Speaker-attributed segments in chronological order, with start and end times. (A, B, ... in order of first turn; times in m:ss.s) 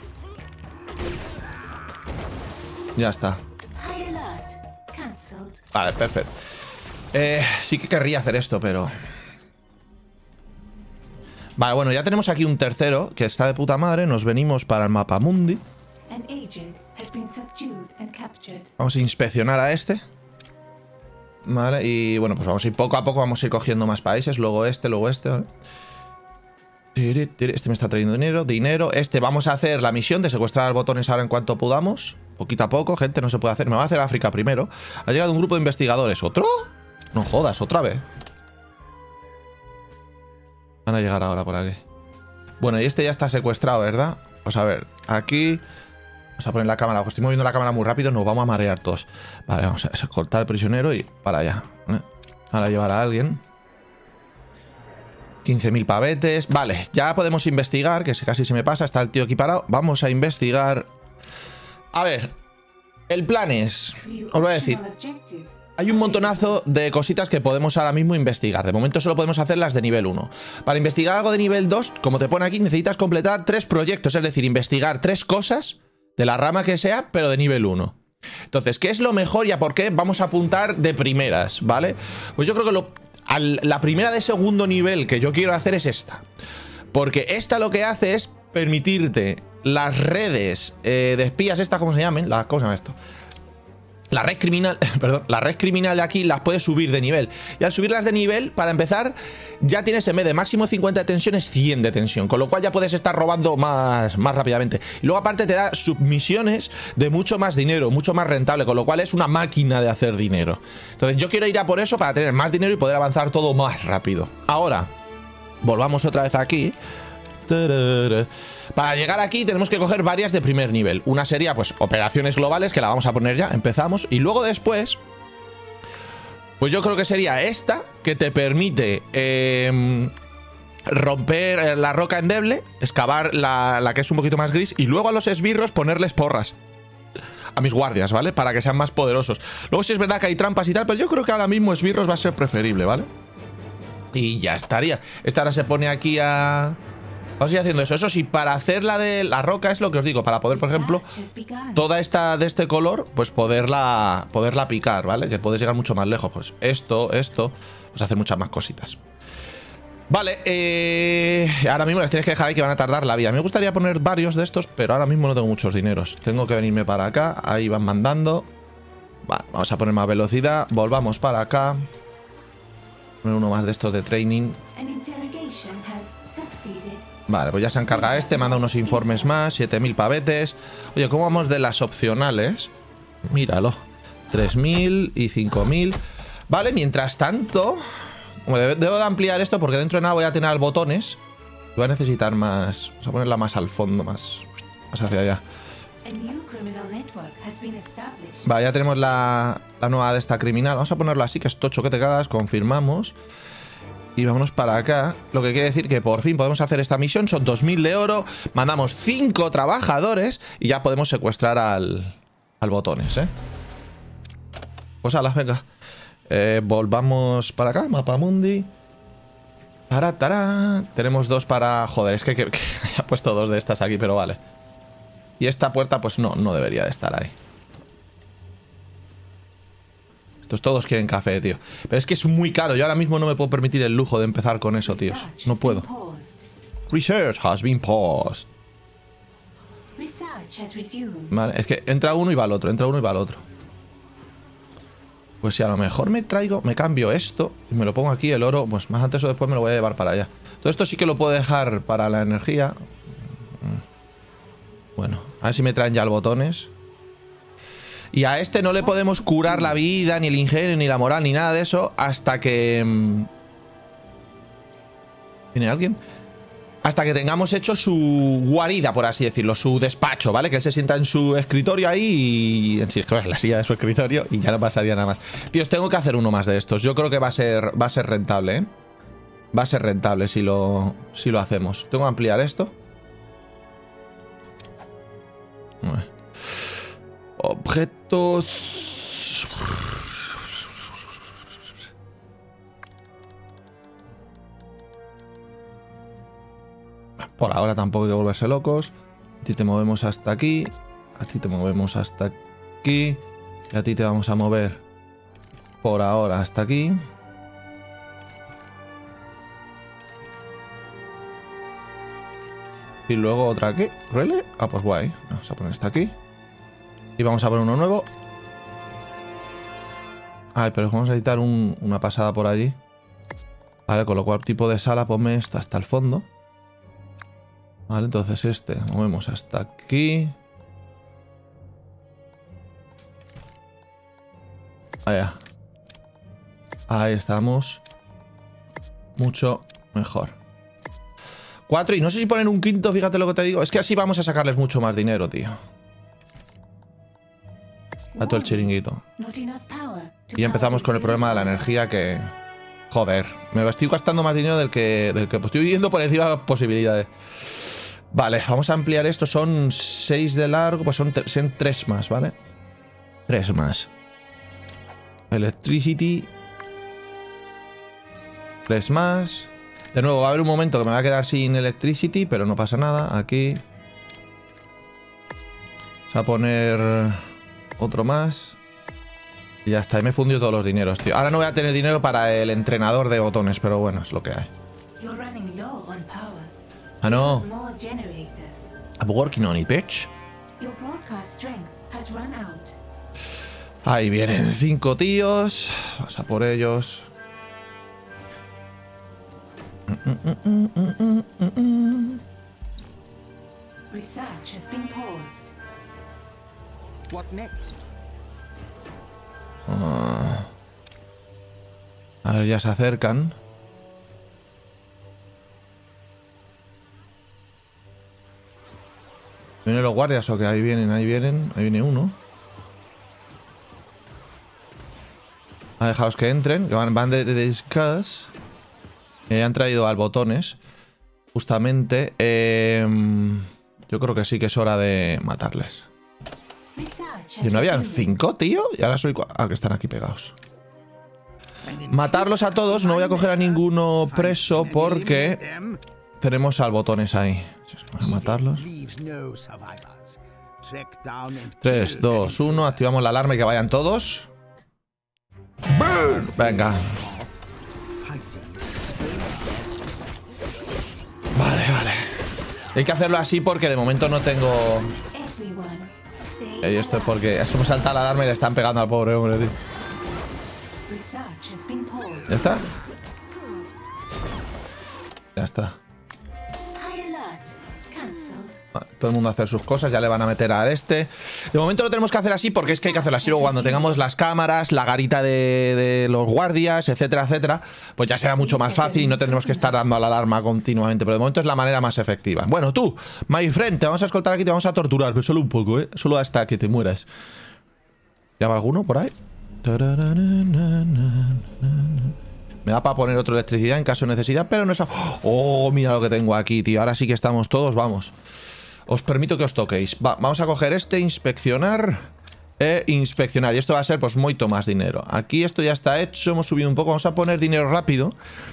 0:03.0-0:03.4 A
0:03.7-0:05.6 B
0:05.7-0:06.4 A
0:07.1-0:08.9 A
0:11.6-0:15.6 A
0:16.1-0:18.7 B
0:18.8-0:20.0 A
0:21.4-0:25.5 A
0:26.9-0:38.0 A
0:40.8-0:41.8 A
0:42.6-0:45.6 A
0:46.4-0:53.4 A
0:55.4-1:00.9 A
1:01.9-1:02.3 A
1:03.1-1:04.8 A
1:04.0-1:06.6 B
1:05.8-1:18.0 A
1:18.5-1:26.2 A
1:26.9-1:33.0 A
1:34.1-1:54.9 A
1:55.6-1:56.8 A
1:57.5-2:05.0 A
2:06.6-2:10.1 A
2:10.8-2:16.6 A
2:17.6-2:23.1 A
2:24.1-2:26.8 A
2:27.4-2:31.1 A
2:30.5-2:31.9 B
2:31.7-2:39.0 A
2:40.1-2:48.5 A
2:49.2-2:51.8 A
2:53.2-2:54.6 A
2:54.7-2:57.1 B
2:57.3-3:02.7 A
2:57.9-2:59.4 B
3:03.3-3:07.8 A
3:08.4-3:11.2 A
3:11.7-3:15.4 A
3:16.0-3:18.5 B
3:18.4-3:23.2 A
3:24.2-3:33.3 A
3:35.0-3:35.6 A
3:36.3-3:38.7 A
3:39.9-3:44.4 A
3:45.4-3:47.3 A
3:50.4-3:55.8 A
3:54.8-3:56.4 B
3:56.9-3:58.5 A
4:00.0-4:01.3 B
4:01.3-4:03.4 A
4:05.4-4:12.7 A
4:15.0-4:16.7 A
4:18.1-4:23.3 A
4:18.8-4:19.7 B
4:25.5-4:26.0 A
4:26.8-4:38.7 A
4:39.5-4:42.7 A
4:45.8-4:46.7 A
4:47.4-4:50.6 A
4:57.2-5:03.2 A
5:03.7-5:04.8 A
5:05.8-5:07.0 A
5:13.1-5:16.1 A
5:17.2-5:18.1 A
5:20.5-5:22.8 A
5:23.9-5:26.3 A
5:27.9-5:30.3 A
5:35.0-5:35.4 A
5:36.9-5:37.8 A
5:39.2-5:40.4 A
5:41.7-5:45.5 A
5:48.1-5:51.7 B
5:48.2-5:49.0 A
5:50.4-5:52.3 A
5:52.9-6:02.3 A
6:03.3-6:03.9 A
6:05.3-6:06.3 A
6:08.7-6:13.6 A
6:16.1-6:17.2 A
6:17.8-6:18.6 A
6:19.6-6:24.5 A
6:25.0-6:28.7 B
6:27.0-6:27.5 A
6:29.0-6:30.1 A
6:30.6-6:32.8 B
6:33.8-6:37.1 A
6:39.9-6:42.2 A
6:43.9-6:45.5 B
6:47.1-6:47.8 C
6:49.7-6:50.5 A
6:52.2-6:53.4 A
6:59.6-7:02.2 A
7:05.8-7:08.3 A
7:09.3-7:10.6 A
7:11.3-7:15.9 A
7:16.7-7:18.2 B
7:17.4-7:20.3 A
7:21.6-7:25.8 C
7:21.9-7:25.4 A
7:22.8-7:23.3 B
7:26.2-7:28.7 A
7:28.0-7:32.8 C
7:31.6-7:34.3 A
7:35.7-7:36.9 A
7:35.8-7:40.2 C
7:41.3-7:44.9 A
7:45.1-7:47.8 B
7:46.6-7:49.5 A
7:50.9-7:52.7 B
7:52.3-7:52.7 A
7:55.4-7:55.8 A
7:56.8-7:58.6 B
7:58.7-8:17.1 A
8:02.6-8:04.0 B
8:08.4-8:09.9 B
8:18.4-8:22.1 A
8:22.6-8:28.1 A
8:28.9-8:38.1 A